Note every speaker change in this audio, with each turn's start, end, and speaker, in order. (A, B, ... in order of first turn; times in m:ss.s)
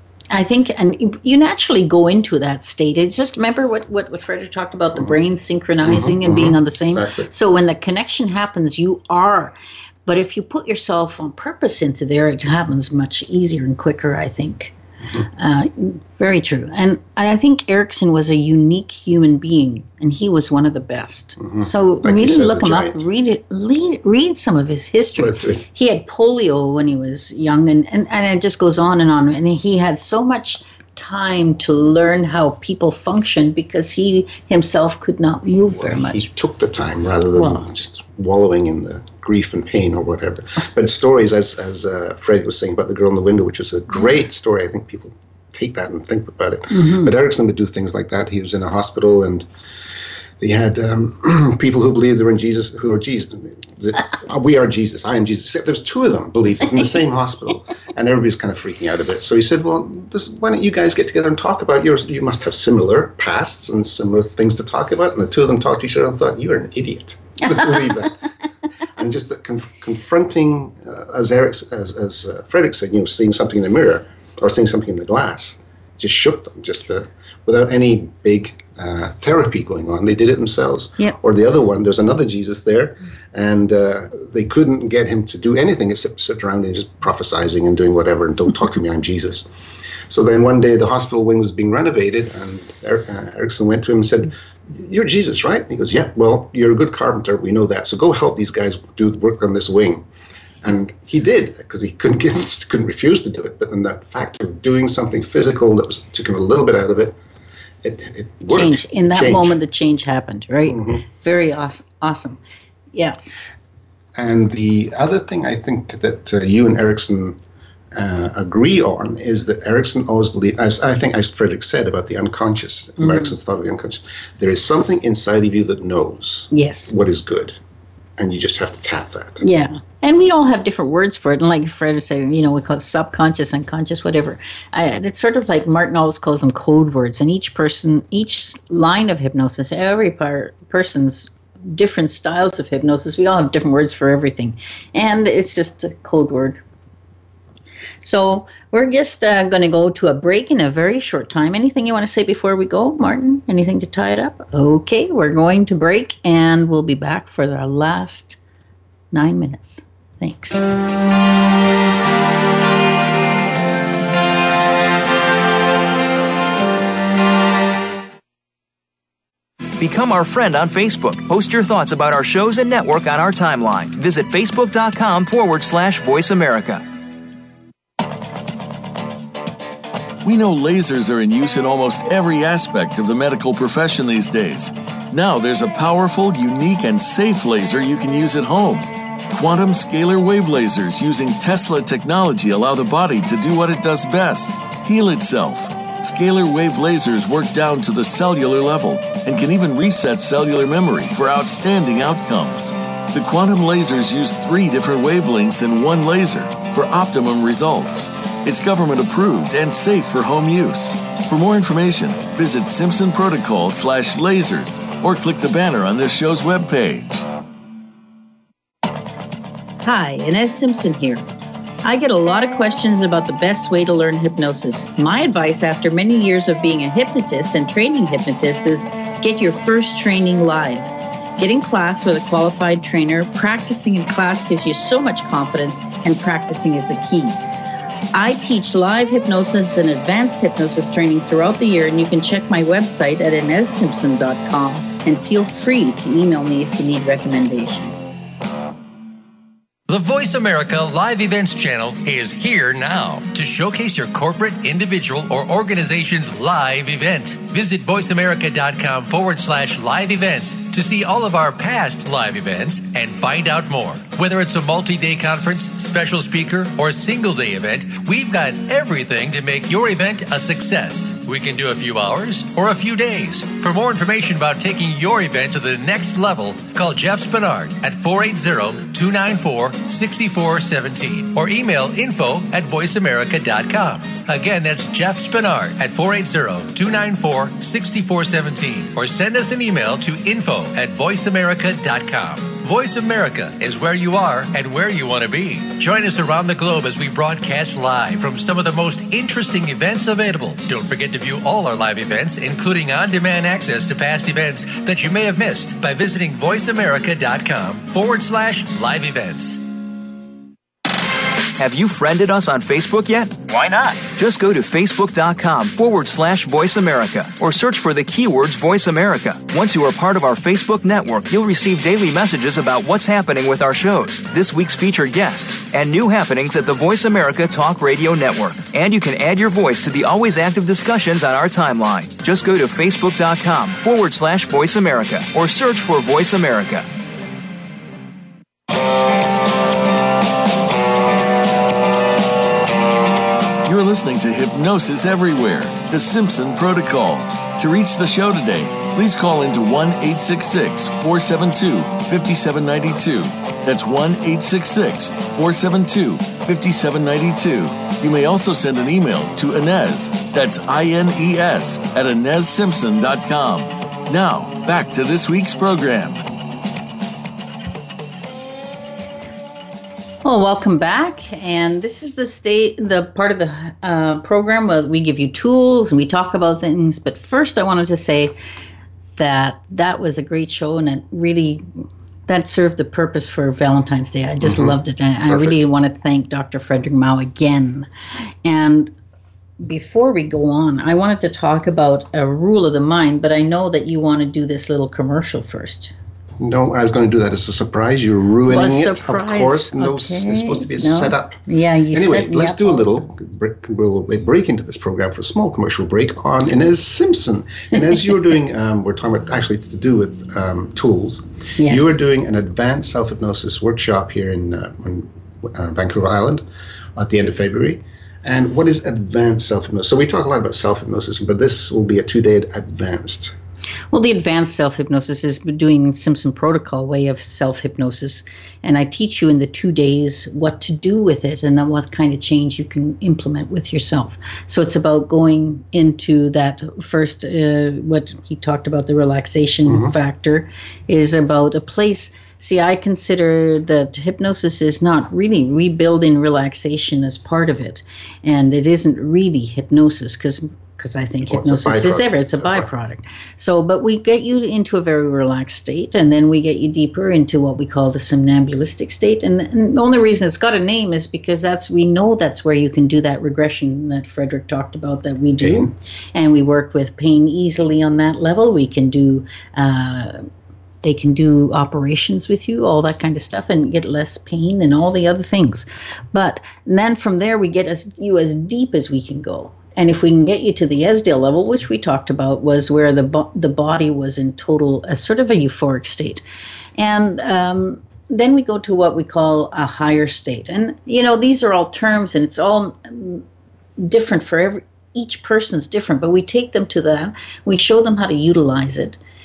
0:00.3-0:36.2 A
0:05.8-0:07.3 B
0:21.4-0:23.0 B
0:25.2-0:25.6 B
0:35.6-0:49.4 B
0:37.3-0:37.6 A
0:46.7-0:47.1 A
0:50.4-1:08.2 B
1:09.0-1:40.0 B
1:40.6-1:47.2 B
1:47.8-1:49.6 B
1:48.5-1:52.4 A
1:50.7-1:51.0 B
1:54.2-1:57.4 B
1:57.9-2:07.6 B
2:03.0-2:03.3 A
2:06.5-2:06.9 A
2:08.2-2:09.4 B
2:09.4-2:26.6 A
2:28.0-2:38.4 A
2:39.1-2:40.6 A
2:49.8-2:56.8 C
3:00.2-3:37.2 D
3:39.8-3:41.3 A
3:41.8-3:57.4 A
3:58.1-4:08.1 A
4:09.9-5:09.6 E
5:11.6-5:36.9 C
5:43.6-6:06.2 D
6:10.2-6:18.4 A
6:19.2-6:27.9 A
6:24.4-6:24.8 B
6:25.3-6:25.6 B
6:28.4-6:28.9 A
6:29.6-6:35.9 A
6:36.4-6:41.4 B
6:38.5-6:43.1 A
6:41.9-6:56.4 B
6:51.6-6:52.0 A
6:57.0-7:03.3 B
7:03.9-7:50.2 A
7:19.6-7:19.9 B
7:31.2-7:32.7 B
7:45.4-7:45.7 B
7:50.8-8:06.2 A
8:06.8-8:13.2 A
8:13.8-8:19.0 A